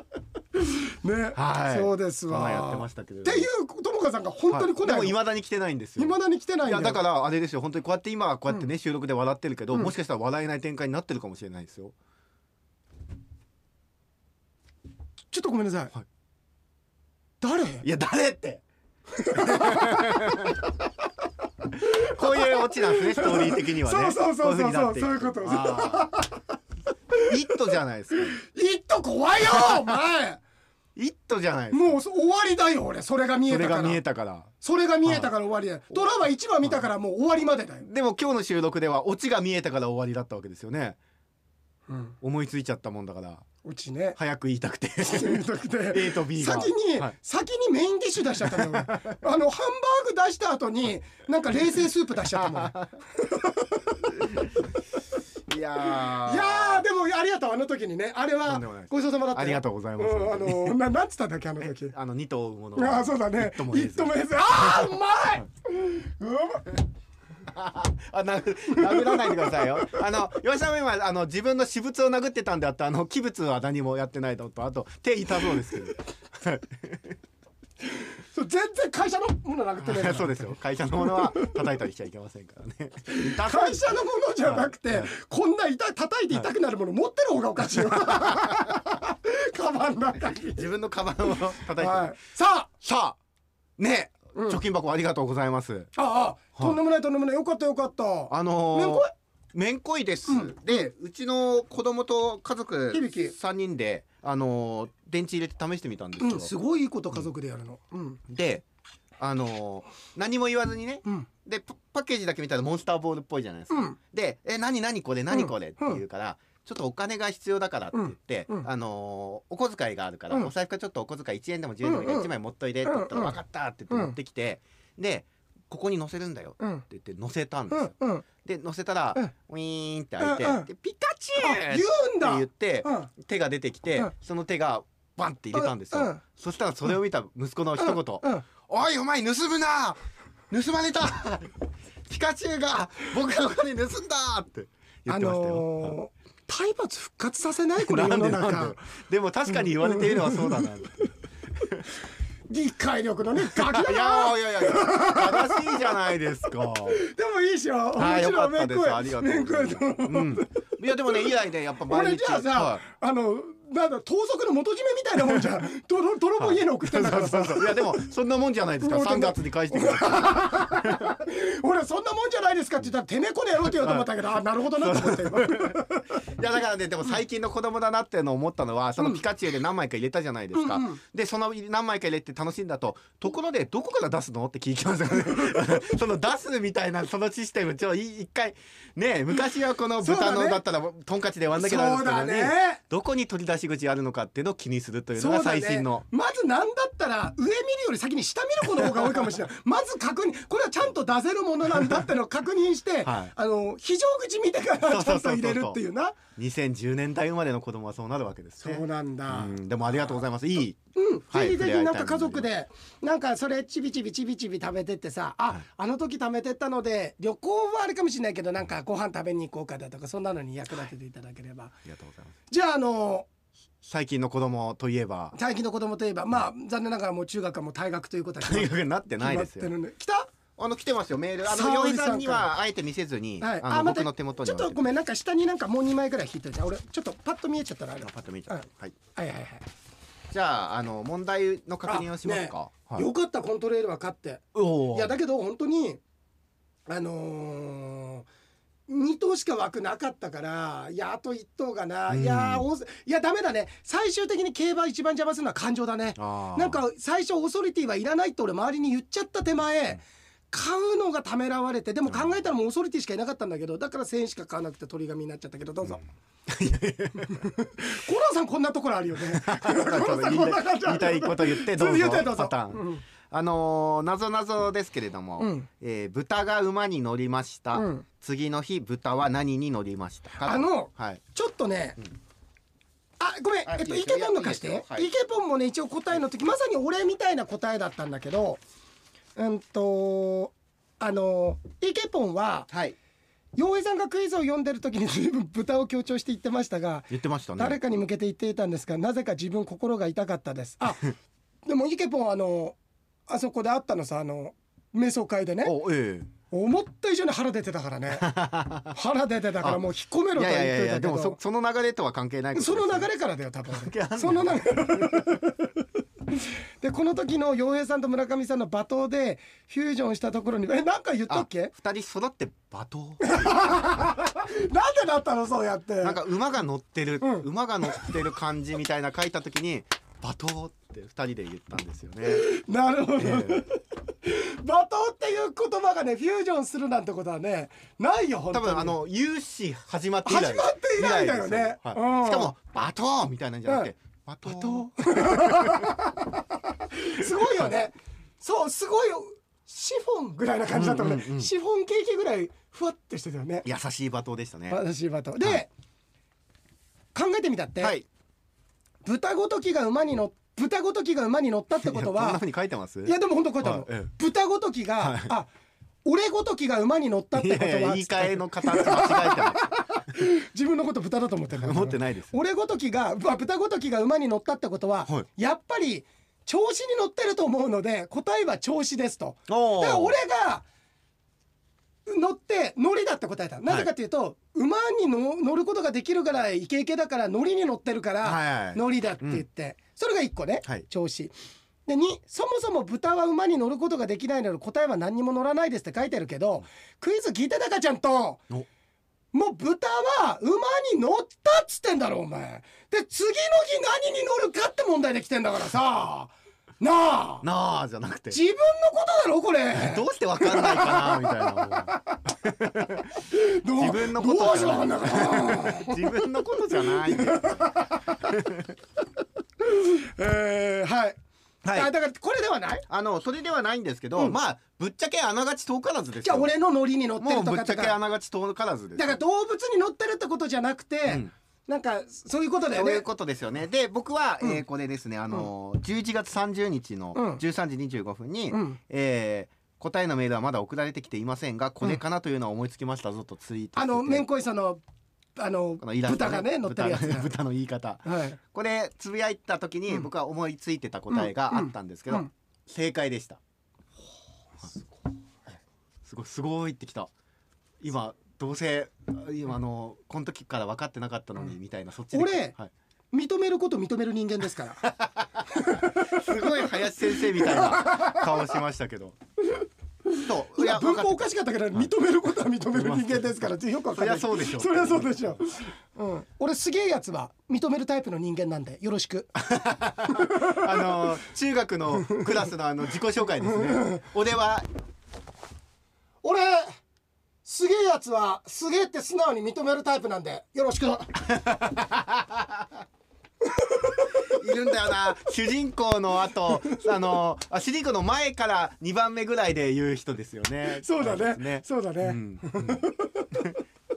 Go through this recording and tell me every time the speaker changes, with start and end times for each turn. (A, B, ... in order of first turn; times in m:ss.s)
0:00.6-0:05.2 A
0:01.3-0:03.5 B
0:04.5-0:11.9 B
0:06.0-0:07.0 A
0:15.3-0:15.9 A
0:17.4-0:17.8 A
0:17.8-0:18.6 B
0:19.2-0:20.4 A
0:19.3-0:20.6 B
0:21.8-0:26.1 B
0:21.8-0:26.4 A
0:27.2-0:28.4 B
0:28.2-0:30.4 A
0:29.4-0:30.0 B
0:31.0-0:32.0 B
0:31.7-0:34.0 A
0:33.5-0:34.5 B
0:34.6-0:37.9 A
0:35.0-0:35.3 B
0:37.8-0:41.0 B
0:41.9-0:42.2 A
0:42.2-0:43.4 B
0:43.6-0:44.2 A
0:44.2-0:47.1 B
0:45.0-0:54.1 A
0:48.4-0:48.9 B
0:52.3-0:53.0 B
0:54.1-0:54.5 B
0:55.5-0:56.8 B
0:55.8-1:01.9 A
0:58.4-1:00.8 B
1:01.6-1:04.9 B
1:02.8-1:06.8 A
1:07.5-1:17.2 B
1:08.8-1:09.5 A
1:17.9-1:20.6 A
1:19.8-1:25.1 B
1:23.1-1:30.7 A
1:27.9-1:28.6 B
1:30.3-1:32.2 B
1:31.4-1:32.7 A
1:32.8-1:33.2 B
1:33.8-1:35.9 B
1:34.4-1:34.6 A
1:36.0-1:39.1 A
1:38.3-1:46.5 B
1:40.3-1:40.9 A
1:42.9-1:43.3 A
1:46.2-1:48.2 A
1:48.3-1:48.6 B
1:49.2-2:20.0 B
1:53.7-1:54.0 A
1:55.3-1:56.0 A
1:57.9-1:58.7 A
2:01.8-2:02.3 A
2:02.8-2:03.4 A
2:03.9-2:04.1 A
2:06.6-2:06.8 A
2:07.7-2:08.2 A
2:10.2-2:10.7 A
2:11.4-2:13.1 A
2:15.5-2:16.2 A
2:17.8-2:18.4 A
2:20.5-2:21.5 B
2:22.1-2:25.9 B
2:25.1-2:28.8 A
2:27.8-2:31.1 B
2:29.8-2:30.7 A
2:32.5-2:35.9 A
2:33.4-2:37.0 B
2:36.9-2:40.5 A
2:37.9-2:42.8 B
2:41.9-2:48.1 A
2:46.4-2:51.1 B
2:48.8-2:56.2 A
2:53.7-2:54.1 B
2:54.8-3:16.0 B
3:00.5-3:01.0 A
3:10.0-3:10.6 A
3:11.6-3:12.8 A
3:15.2-3:26.2 A
3:18.8-3:19.2 B
3:23.0-3:23.3 B
3:24.9-3:25.8 B
3:26.4-3:30.8 B
3:28.6-3:29.6 A
3:30.9-3:41.8 A
3:31.3-3:32.5 B
3:41.9-3:42.3 B
3:42.5-3:43.3 A
3:43.8-3:45.4 B
3:45.3-3:50.3 A
3:48.4-3:49.7 B
3:50.6-3:54.8 B
3:51.4-3:52.5 A
3:53.4-3:59.7 A
3:58.0-3:59.0 B
4:00.3-4:03.1 B
4:01.9-4:06.0 A
4:04.6-4:05.1 B
4:06.9-4:08.2 A
4:08.9-4:26.0 A
4:12.1-4:12.7 B
4:16.2-4:16.8 B
4:22.1-4:22.4 B
4:26.5-4:27.5 B
4:27.2-4:33.0 A
4:29.3-4:41.2 B
4:35.4-4:35.7 A
4:37.7-4:38.1 A
4:40.4-4:42.0 A
4:43.2-4:48.6 A
4:43.7-4:45.1 B
4:49.4-4:52.7 A
4:52.7-4:53.0 B
4:53.6-5:01.2 A
4:57.1-4:57.8 B
5:01.7-5:05.8 A
5:05.6-5:06.3 B
5:06.5-5:08.3 A
5:08.1-5:08.9 B
5:08.8-5:11.4 A
5:10.3-5:13.1 B
5:12.6-5:21.7 A
5:13.7-5:15.4 B
5:21.3-5:23.9 B
5:23.2-5:26.2 A
5:26.0-5:32.4 B
5:27.2-5:28.1 A
5:32.3-5:39.0 A
5:33.2-5:33.7 B
5:38.5-5:45.9 B
5:40.3-5:42.5 A
5:44.4-5:53.7 A
5:47.2-5:47.8 B
5:50.7-5:51.5 B
5:53.6-5:54.8 B
5:54.7-5:55.7 A
5:57.2-5:57.9 A
5:57.8-5:58.1 B
5:59.0-6:02.4 A
6:01.8-6:04.1 B
6:03.0-6:05.5 A
6:05.0-6:05.3 B
6:06.0-6:20.7 A
6:07.3-6:09.7 B
6:11.6-6:12.3 B
6:19.5-6:20.2 B
6:22.1-6:31.3 A
6:28.2-6:29.4 B
6:31.8-6:38.5 A
6:39.3-6:47.4 A
6:47.4-6:48.4 B
6:48.3-6:52.2 A
6:49.7-6:58.7 B
6:53.3-6:56.2 A
6:56.7-6:58.3 A
6:59.6-7:02.8 A
7:01.6-7:01.9 B
7:02.9-7:06.5 B
7:06.2-7:08.0 A
7:07.2-7:09.2 B
7:08.9-7:13.1 A
7:12.7-7:24.2 B
7:17.2-7:17.4 A
7:18.5-7:18.8 A
7:23.8-7:24.8 A
7:25.4-7:27.3 A
7:25.8-7:33.4 B
7:28.0-7:28.4 A
7:31.1-7:32.3 A
7:36.0-7:37.1 B
7:37.8-7:42.7 B
7:42.1-7:42.6 A
7:43.1-7:44.9 A
7:44.8-7:49.2 B
7:45.5-7:48.5 A
7:49.6-7:59.4 A
7:50.2-7:51.9 B
7:52.7-7:55.4 B
7:59.4-8:04.7 B
8:00.2-8:01.0 A
8:06.2-8:06.7 A
8:07.4-8:11.2 A
8:11.2-8:12.7 B
8:13.5-8:14.4 A
8:14.2-8:23.5 B
8:20.7-8:23.5 A